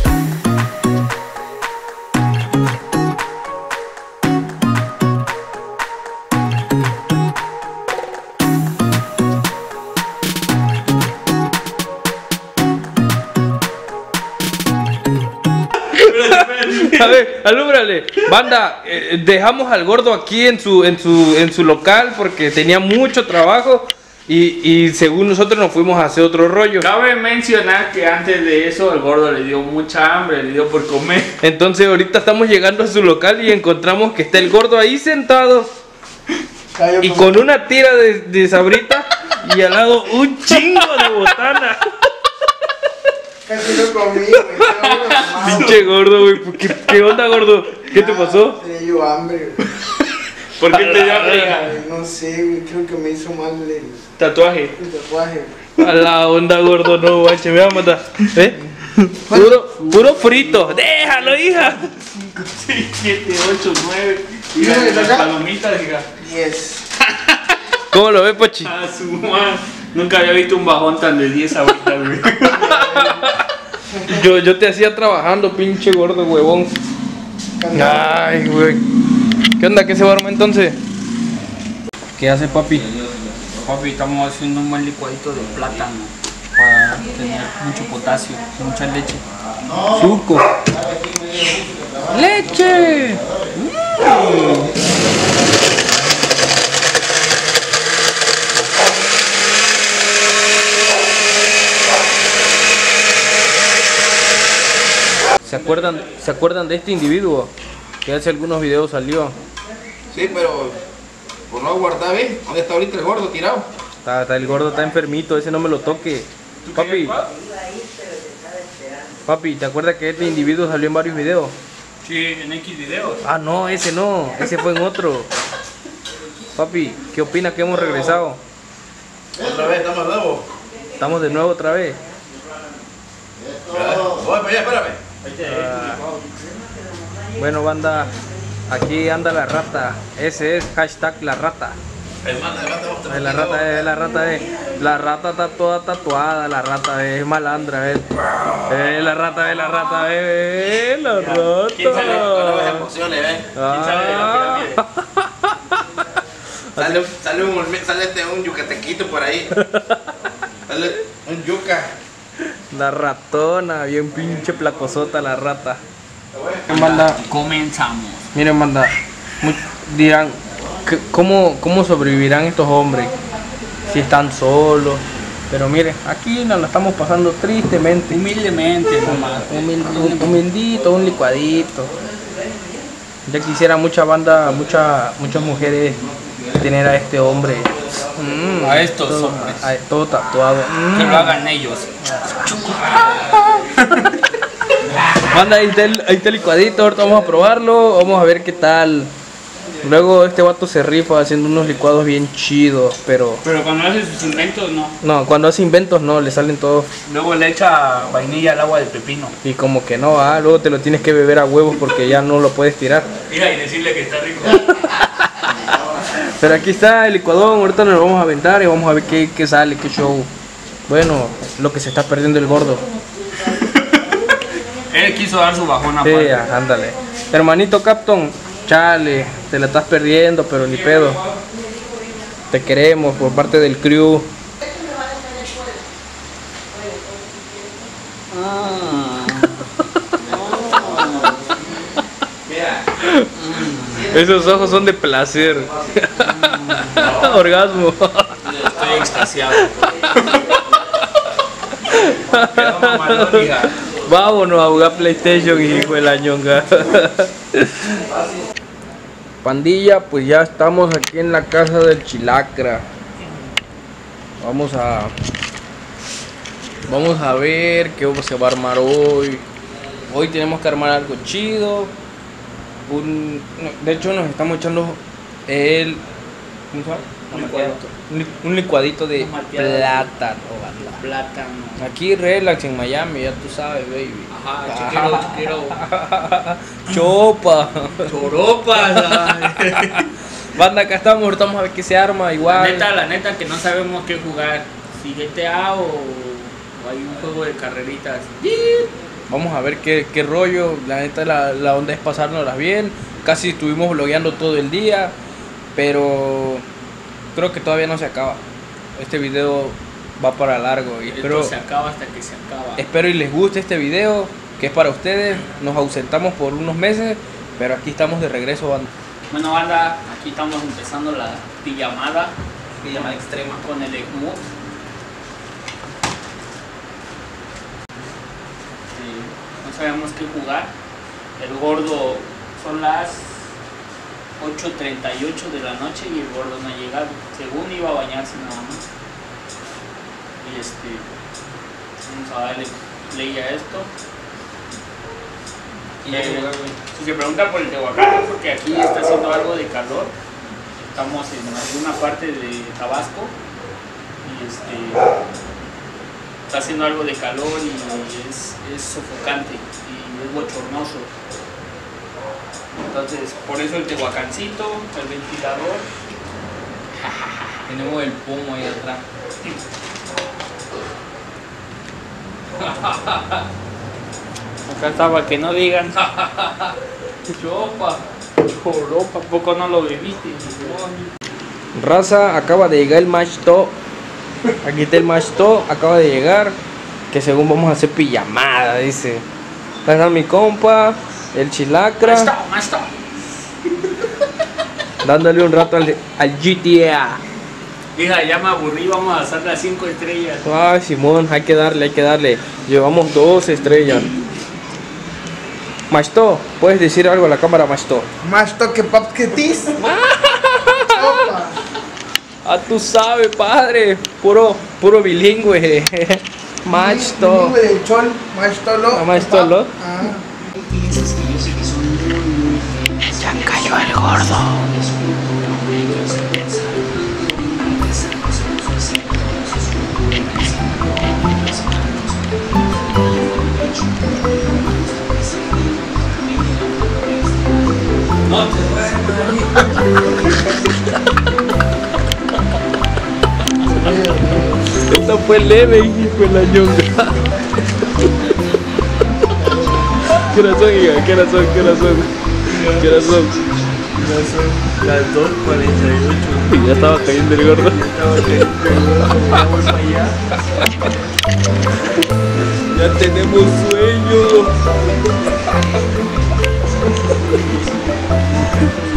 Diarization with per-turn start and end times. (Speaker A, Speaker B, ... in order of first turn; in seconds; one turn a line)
Speaker A: 15.8-17.2
Speaker B: 16.2-26.9
Speaker A: 26.8-31.4
Speaker B: 31.4-35.7
Speaker C: 36.7-37.4
Speaker B: 37.0-41.9
Speaker A: 40.6-41.2
Speaker C: 43.5-45.9
Speaker A: 44.8-45.9
Speaker B: 45.4-48.6
Speaker C: 47.9-49.7
Speaker A: 50.6-51.8
Speaker B: 50.6-51.5
Speaker C: 51.3-54.0
Speaker A: 54.2-54.8
Speaker C: 54.8-55.7
Speaker B: 55.8-61.8
Speaker C: 59.3-59.6
Speaker A: 59.9-66.1
Speaker C: 64.6-65.3
Speaker C: 66.2-66.8
Speaker A: 67.0-67.6
Speaker B: 67.9-68.7
Speaker A: 68.6-72.8
Speaker C: 72.5-73.2
Speaker B: 72.7-73.5
Speaker B: 74.1-76.7
Speaker C: 77.6-78.2
Speaker B: 77.7-78.8
Speaker B: 79.6-80.8
Speaker B: 82.2-83.2
Speaker A: 83.6-89.2
Speaker B: 89.9-90.5
Speaker B: 92.0-93.3
Speaker B: 93.8-94.6
Speaker B: 105.5-107.5
Speaker A: 105.8-106.1
Speaker B: 108.0-109.4
Speaker D: 110.1-110.8
Speaker D: 111.5-113.7
Speaker B: 114.0-117.2
Speaker A: 116.7-117.3
Speaker B: 119.3-121.5
Speaker A: 122.0-123.2
Speaker B: 123.2-125.3
Speaker B: 126.6-128.4
Speaker D: 129.4-130.4
Speaker B: 131.0-132.0
Speaker D: 133.7-135.0
Speaker A: 135.2-136.2
Speaker B: 135.4-136.0
Speaker B: 137.4-138.1
Speaker B: 138.7-141.8
Speaker D: 142.2-143.8
Speaker B: 143.1-152.9
Speaker A: 151.0-152.7
Speaker D: 152.2-153.5
Speaker B: 153.6-155.8
Speaker A: 153.7-154.8
Speaker B: 156.7-157.1
Speaker D: 156.8-159.5
Speaker B: 159.5-160.1
Speaker D: 160.7-161.9
Speaker B: 162.4-165.8
Speaker D: 166.3-166.7
Speaker A: 166.7-168.3
Speaker B: 166.7-167.2
Speaker B: 168.3-173.1
Speaker B: 173.9-178.2
Speaker A: 178.1-180.4
Speaker B: 179.0-181.9
Speaker B: 183.3-186.0
Speaker B: 186.6-191.4
Speaker A: 188.6-189.7
Speaker A: 190.9-194.2
Speaker B: 195.2-199.1
Speaker B: 199.8-203.4
Speaker A: 203.4-205.0
Speaker B: 205.0-206.9
Speaker A: 207.1-209.3
Speaker B: 209.4-213.1
Speaker A: 213.3-215.0
Speaker B: 216.0-220.3
Speaker B: 220.9-222.9
Speaker A: 223.4-226.5
Speaker B: 226.0-231.2
Speaker B: 232.5-234.3
Speaker A: 238.3-239.6
Speaker A: 240.2-241.6
Speaker B: 243.0-243.3
Speaker A: 243.4-244.1
Speaker B: 244.0-248.5
Speaker A: 246.4-247.1
Speaker A: 248.5-250.5
Speaker B: 250.5-251.0
Speaker B: 251.8-258.1
Speaker A: 252.6-253.7
Speaker B: 259.4-262.8
Speaker B: 264.4-265.1
Speaker B: 266.9-269.5
Speaker B: 270.1-271.9
Speaker B: 272.9-276.0
Speaker B: 276.7-281.0
Speaker A: 277.3-277.9
Speaker A: 279.2-280.1
Speaker A: 280.8-281.8
Speaker B: 281.8-288.1
Speaker A: 284.3-285.8
Speaker A: 288.0-290.1
Speaker B: 288.7-292.9
Speaker A: 292.5-299.0
Speaker B: 299.3-305.2
Speaker B: 305.8-306.6
Speaker B: 307.3-308.4
Speaker B: 308.9-311.5
Speaker A: 311.1-312.9
Speaker B: 312.8-318.9
Speaker A: 319.3-322.4
Speaker B: 322.8-323.6
Speaker A: 323.0-324.5
Speaker A: 328.9-330.8
Speaker A: 331.4-333.5
Speaker A: 334.4-338.9
Speaker A: 340.4-341.1
Speaker A: 342.0-343.9
Speaker B: 346.0-346.8
Speaker A: 346.1-350.1
Speaker A: 350.9-353.4
Speaker A: 354.2-355.0
Speaker A: 356.5-361.1
Speaker A: 362.8-365.9
Speaker B: 367.6-369.0
Speaker B: 372.6-373.4
Speaker A: 374.7-376.1
Speaker B: 376.0-376.7
Speaker B: 377.3-378.0
Speaker A: 378.4-381.1
Speaker B: 381.8-383.8
Speaker B: 384.6-386.6
Speaker B: 387.1-389.2
Speaker B: 389.9-392.3
Speaker A: 392.0-392.9
Speaker A: 393.7-394.1
Speaker B: 395.0-397.2
Speaker A: 397.9-400.4
Speaker B: 400.4-404.1
Speaker B: 405.9-408.1
Speaker C: 408.2-409.8
Speaker B: 409.8-411.2
Speaker C: 410.9-411.6
Speaker B: 412.4-417.6
Speaker C: 416.7-420.2
Speaker B: 418.9-419.7
Speaker B: 423.2-424.8
Speaker A: 438.4-439.2
Speaker B: 438.4-439.7
Speaker C: 443.6-444.8
Speaker B: 444.8-447.5
Speaker B: 449.9-453.4
Speaker A: 452.5-453.0
Speaker A: 454.0-460.2
Speaker B: 456.5-457.8
Speaker B: 460.6-460.9
Speaker B: 462.7-464.6